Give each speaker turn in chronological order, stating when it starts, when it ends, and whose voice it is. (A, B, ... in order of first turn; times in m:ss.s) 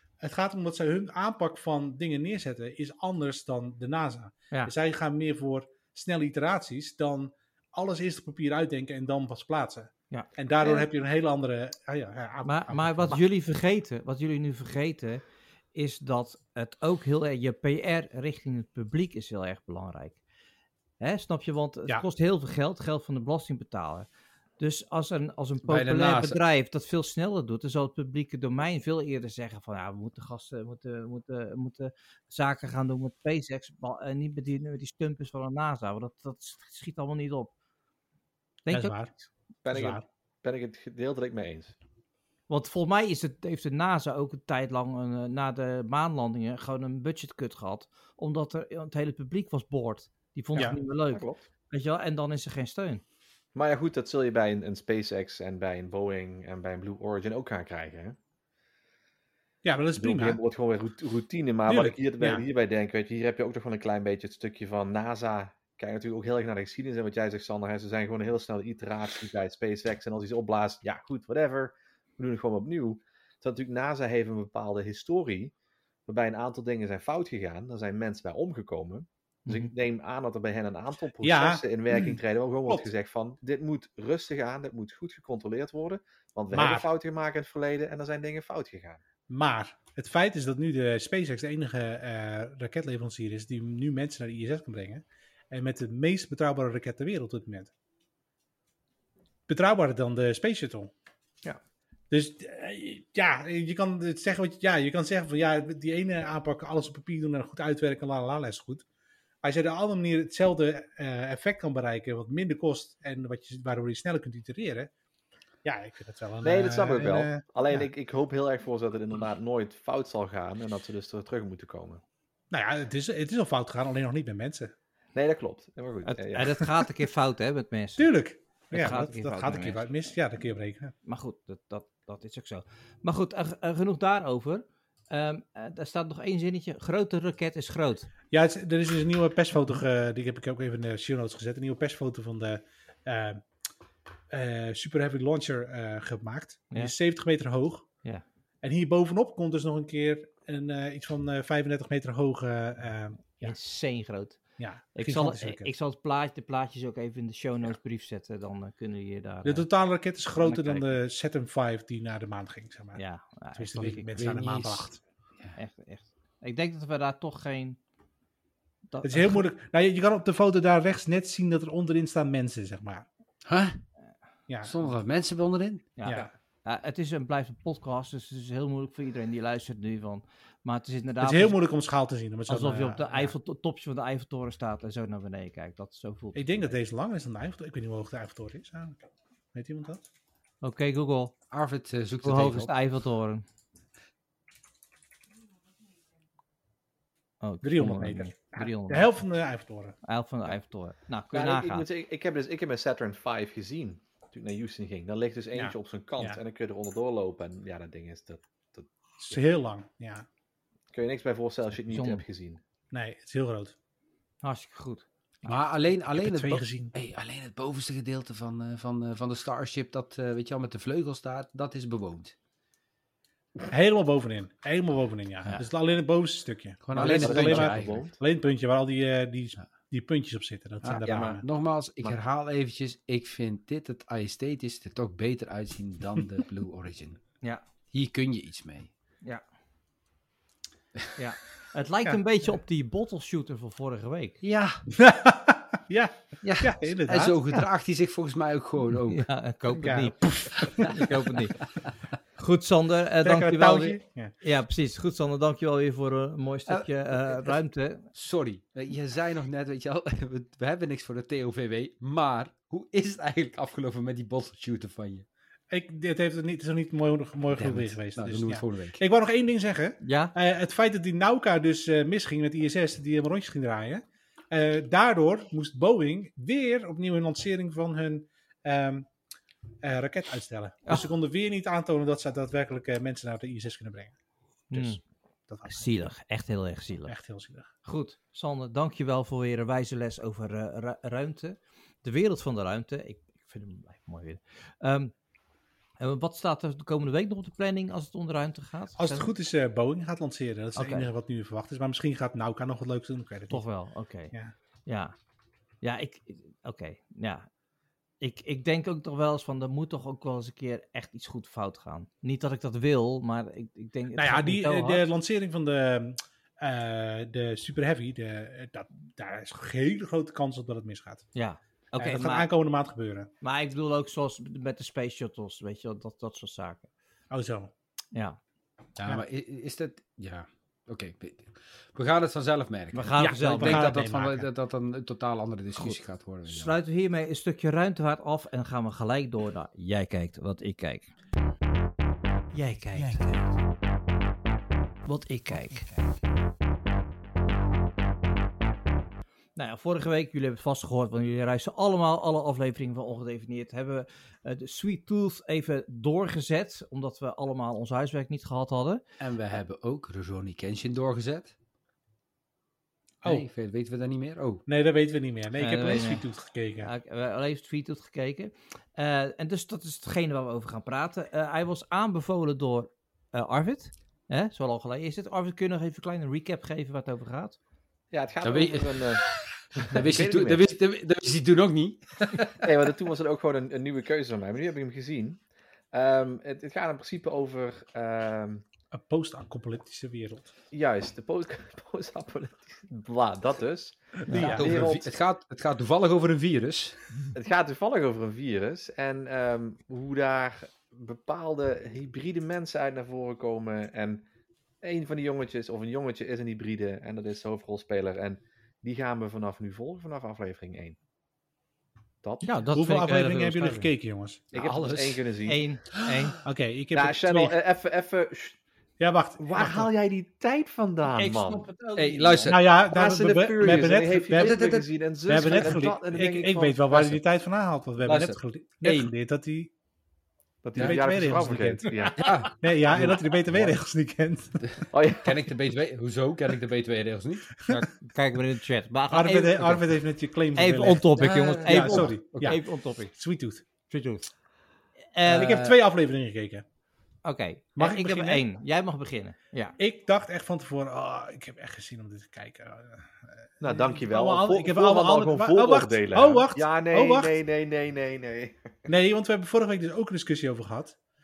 0:00.2-0:13.2 A
0:10.1-0:10.8 B
0:12.4-0:15.2 B
0:15.7-0:20.2 B
0:21.0-0:24.1 B
0:24.6-0:37.5 B
0:25.6-0:26.4 C
0:38.6-0:39.0 B
0:38.7-0:40.0 A
0:39.6-0:41.7 D
0:42.5-0:53.0 B
0:50.6-0:51.4 D
0:53.5-0:58.2 D
0:59.6-1:00.4 A
1:00.0-1:15.5 D
1:01.7-1:02.4 A
1:16.1-1:29.0 D
1:19.4-1:19.7 B
1:21.2-1:22.9 A
1:26.5-1:26.9 A
1:29.3-1:37.7 A
1:39.5-1:40.9 A
1:42.1-1:48.8 A
1:49.4-1:54.9 A
1:55.6-1:57.9 A
1:56.4-2:02.0 D
2:02.5-2:04.7 A
2:05.1-2:06.6 D
2:06.0-2:08.1 B
2:08.0-2:10.9 A
2:08.7-2:09.8 B
2:11.0-2:18.1 B
2:18.3-2:23.4 A
2:24.3-2:27.9 A
2:28.6-2:33.6 A
2:33.4-2:34.4 B
2:34.6-2:35.7 A
2:34.9-2:39.7 B
2:39.4-2:43.0 A
2:40.4-2:40.9 B
2:42.9-2:44.5 B
2:43.5-2:45.0 A
2:43.8-2:45.6 C
2:45.6-2:47.8 B
2:48.9-2:49.4 B
2:49.0-2:53.0 A
2:53.4-2:53.8 C
2:54.5-2:54.7 A
2:54.6-2:55.9 C
2:56.0-3:01.6 B
2:56.0-2:56.3 A
3:01.2-3:03.3 A
3:02.5-3:06.8 B
3:06.3-3:09.0 A
3:09.5-3:10.0 A
3:10.6-3:11.3 B
3:11.5-3:12.7 C
3:12.2-3:13.4 B
3:17.4-3:19.1 B
3:17.6-3:20.0 A
3:20.0-3:21.8 B
3:21.3-3:29.4 D
3:25.5-3:26.4 A
3:29.2-3:30.2 A
3:30.9-3:32.6 D
3:31.9-3:32.2 B
3:32.9-3:33.7 A
3:34.4-3:35.5 B
3:35.4-3:42.3 C
3:36.1-3:36.9 A
3:43.7-3:51.4 A
3:46.8-3:48.1 C
3:47.0-3:48.2 D
3:50.8-3:57.2 C
3:57.9-3:58.9 C
4:01.2-4:04.4 B
4:04.4-4:04.9 C
4:05.0-4:07.5 A
4:06.4-4:09.3 C
4:09.1-4:11.6 B
4:09.8-4:11.0 A
4:12.4-4:18.1 B
4:13.2-4:14.3 A
4:18.1-4:25.2 C
4:25.7-4:39.1 A
4:27.5-4:29.0 C
4:30.0-4:30.3 B
4:39.8-4:44.1 A
4:44.7-4:45.0 B
4:44.7-4:46.1 A
4:45.7-4:47.1 B
4:47.1-4:47.7 A
4:47.8-4:55.1 B
4:56.0-4:59.3 B
4:59.0-5:03.6 A
5:00.8-5:01.1 B
5:03.5-5:04.3 B
5:04.8-5:05.1 B
5:05.8-5:07.5 B
5:08.2-5:15.1 B
5:14.1-5:21.3 A
5:21.3-5:22.5 B
5:22.0-5:23.3 A
5:23.4-5:26.8 B
5:27.3-5:27.7 A
5:28.1-5:28.4 B
5:29.0-5:36.7 C
5:32.9-5:33.9 B
5:33.2-5:34.5 A
5:35.8-5:41.1 B
5:42.5-5:43.3 B
5:45.0-5:45.9 B
5:49.6-5:59.0 B
5:59.2-6:01.5 C
6:03.2-6:04.6 C
6:04.6-6:06.9 A
6:05.6-6:06.2 B
6:06.8-6:17.6 B
6:18.1-6:20.7 D
6:18.4-6:22.7 C
6:22.6-6:25.4 D
6:25.9-6:28.6 D
6:28.9-6:30.5 A
6:30.7-6:35.1 D
6:34.3-6:34.6 B
6:34.3-6:34.9 A
6:34.5-6:37.0 C
6:37.3-6:44.2 D
6:44.8-6:51.0 D
6:52.2-6:52.5 D
6:52.4-6:53.9 B
6:52.7-6:54.5 A
6:54.5-6:55.2 C
6:54.5-6:55.6 D
6:55.5-6:56.4 B
6:56.0-6:56.3 C
6:56.4-6:57.5 A
6:56.9-6:58.6 D
6:59.0-6:59.9 A
6:59.4-7:01.6 D
7:01.1-7:02.6 B
7:02.0-7:02.7 C
7:02.5-7:04.7 A
7:02.9-7:07.1 D
7:03.6-7:05.8 C
7:05.3-7:09.7 A
7:08.0-7:09.1 C
7:10.6-7:12.3 D
7:10.7-7:11.0 C
7:10.8-7:14.8 A
7:12.1-7:13.8 C
7:14.6-7:17.9 C
7:14.9-7:15.4 D
7:18.0-7:20.0 B
7:19.1-7:23.6 A
7:20.5-7:23.1 B
7:21.2-7:22.6 C
7:23.9-7:24.3 B
7:25.1-7:25.6 B
7:25.3-7:26.6 A
7:25.3-7:25.8 C
7:27.2-7:29.8 B
7:27.8-7:28.4 A
7:29.8-7:37.3 A
7:33.6-7:38.7 D
7:38.9-7:41.0 A